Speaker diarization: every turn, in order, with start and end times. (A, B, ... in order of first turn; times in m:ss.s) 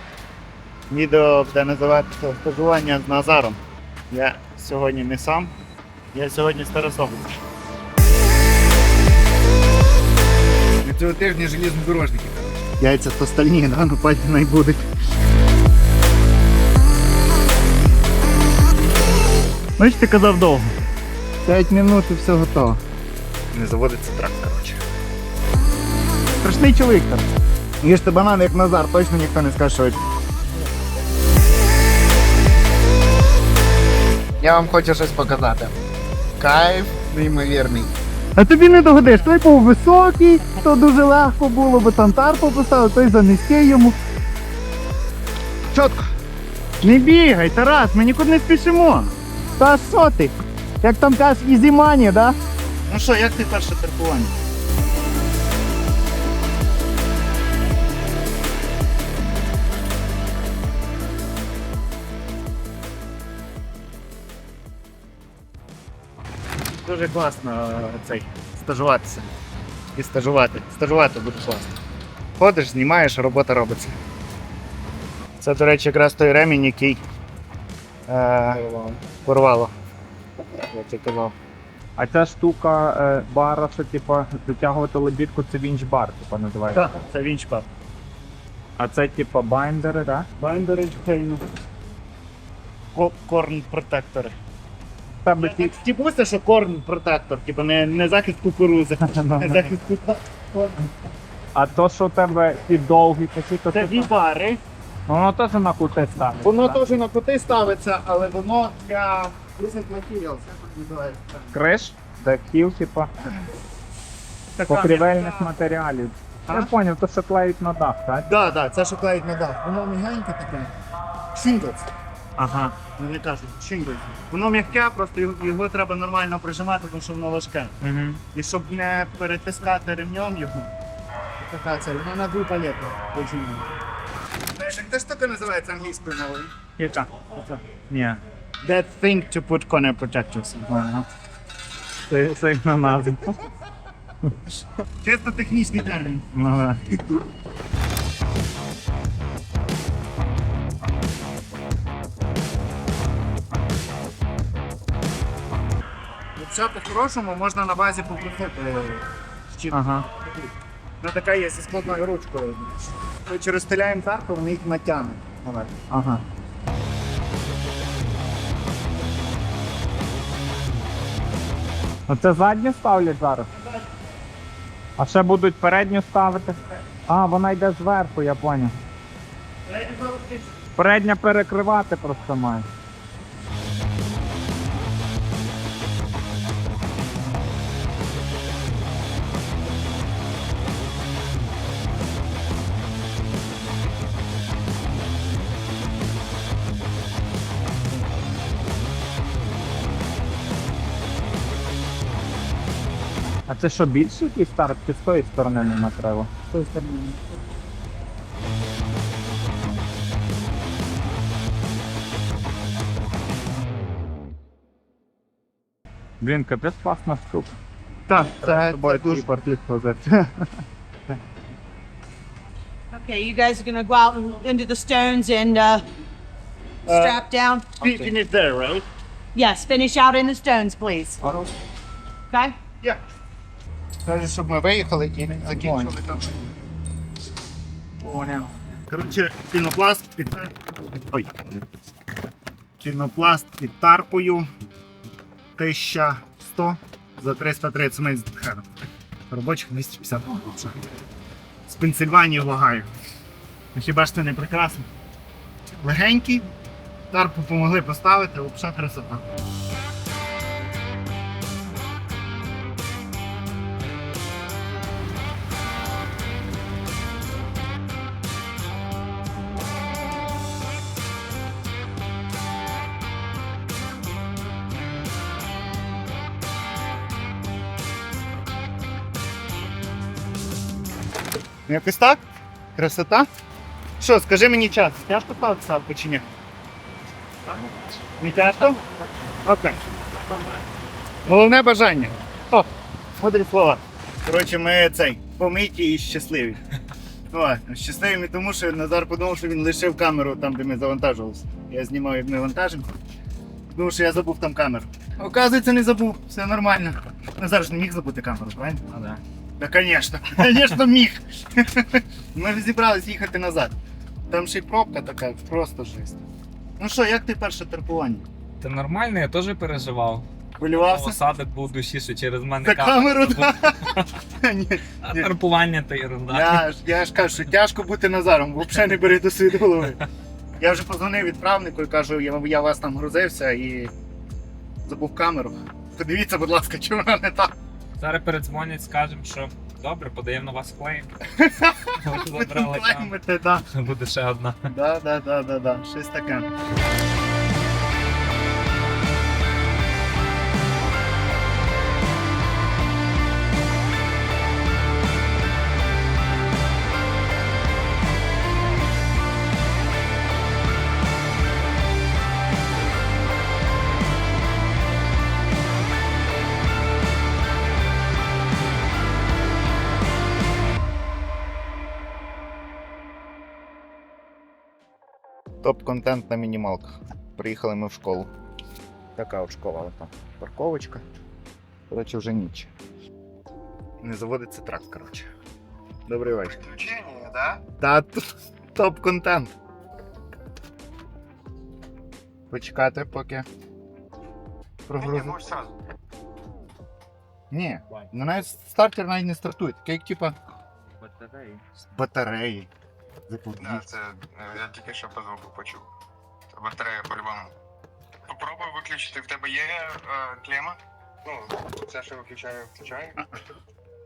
0:00.9-0:05.5 A
0:06.1-0:07.3 A
0:10.8-0:14.8 A
0:19.8-0:20.7 A
0:21.4-0:22.8 A
0:23.5-0:24.8 A
0:26.4-0:27.2 A
0:27.8-0:30.0 A
0:34.4-0:35.7 B
0:36.4-0:37.9 B
0:38.4-0:44.0 A
0:45.7-0:46.1 A
0:46.8-0:52.4 A
0:52.9-0:54.3 A
1:06.8-1:09.2 A
1:09.9-1:11.7 A
1:12.4-1:13.9 A
1:15.4-1:17.0 A
1:18.1-1:19.7 A
1:20.7-1:21.3 A
1:22.0-1:26.9 C
1:26.7-1:27.7 A
1:28.8-1:30.3 C
1:30.4-1:31.4 A
1:32.9-1:34.3 A
1:35.2-1:35.7 C
1:35.4-1:40.8 A
1:39.0-1:39.7 C
1:41.5-1:44.1 C
1:43.7-1:44.6 A
1:45.1-1:46.8 C
1:46.4-1:51.5 A
1:51.5-1:53.1 C
1:54.6-1:55.5 A
1:54.6-1:58.3 C
1:58.2-2:00.7 A
2:01.3-2:01.8 A
2:02.4-2:02.8 C
2:02.9-2:07.8 A
2:07.8-2:08.2 C
2:08.3-2:10.7 A
2:11.4-2:13.7 A
2:14.5-2:16.5 A
2:16.8-2:18.1 C
2:17.4-2:17.8 A
2:18.6-2:21.0 A
2:22.1-2:23.2 A
2:22.1-2:23.3 C
2:25.0-2:27.1 A
2:36.4-2:40.5 A
2:39.7-2:40.0 C
2:41.0-2:45.9 A
2:45.9-2:46.2 C
2:52.1-2:53.5 C
2:55.0-2:58.8 C
2:59.7-3:00.4 A
3:00.8-3:02.7 C
3:23.5-3:26.3 C
3:26.5-3:26.8 A
3:36.2-3:37.6 C
3:38.1-3:40.5 A
3:38.4-3:39.3 C
3:42.9-3:45.8 D
3:46.9-3:47.2 A
3:46.9-3:47.7 D
3:47.8-3:48.8 A
3:49.3-3:51.2 D
3:52.3-3:52.6 D
3:54.0-3:56.4 A
3:58.0-3:58.4 C
3:58.9-4:00.5 A
4:02.8-4:04.5 A
4:05.6-4:08.6 A
4:09.3-4:10.8 A
4:11.7-4:12.9 A
4:13.7-4:14.9 A
4:15.8-4:16.5 A
4:17.1-4:19.2 A
4:41.7-4:42.2 A
4:42.7-4:43.3 A
4:44.0-4:46.2 A
4:48.2-4:48.8 A
4:49.4-4:49.8 A
4:51.2-4:52.7 A
4:53.2-4:56.6 A
4:57.3-5:02.9 A
5:03.7-5:08.9 A
5:08.9-5:09.2 C
5:09.6-5:13.7 A
5:14.3-5:16.2 A
5:16.8-5:18.2 A
5:18.6-5:24.0 C
5:20.6-5:21.2 A
5:22.6-5:25.3 A
5:25.0-5:26.6 C
5:26.3-5:30.0 A
5:30.6-5:33.9 A
5:34.8-5:37.5 A
5:38.0-5:41.1 C
5:41.3-5:43.7 A
5:42.0-5:43.1 C
5:43.7-5:44.7 C
5:44.7-5:46.5 A
6:15.6-6:18.3 A
6:19.2-6:21.0 A
6:21.9-6:22.7 A
6:24.0-6:25.3 A
6:26.1-6:26.6 A
6:26.6-6:27.6 E
6:27.8-6:29.5 A
6:32.5-6:33.4 A
6:34.9-6:35.5 A
6:34.9-6:35.8 E
6:37.5-6:40.4 A
6:40.9-6:41.6 C
6:41.9-6:42.7 A
6:43.3-6:43.9 A
6:43.6-6:45.9 E
6:46.5-6:47.5 E
6:48.3-6:53.2 E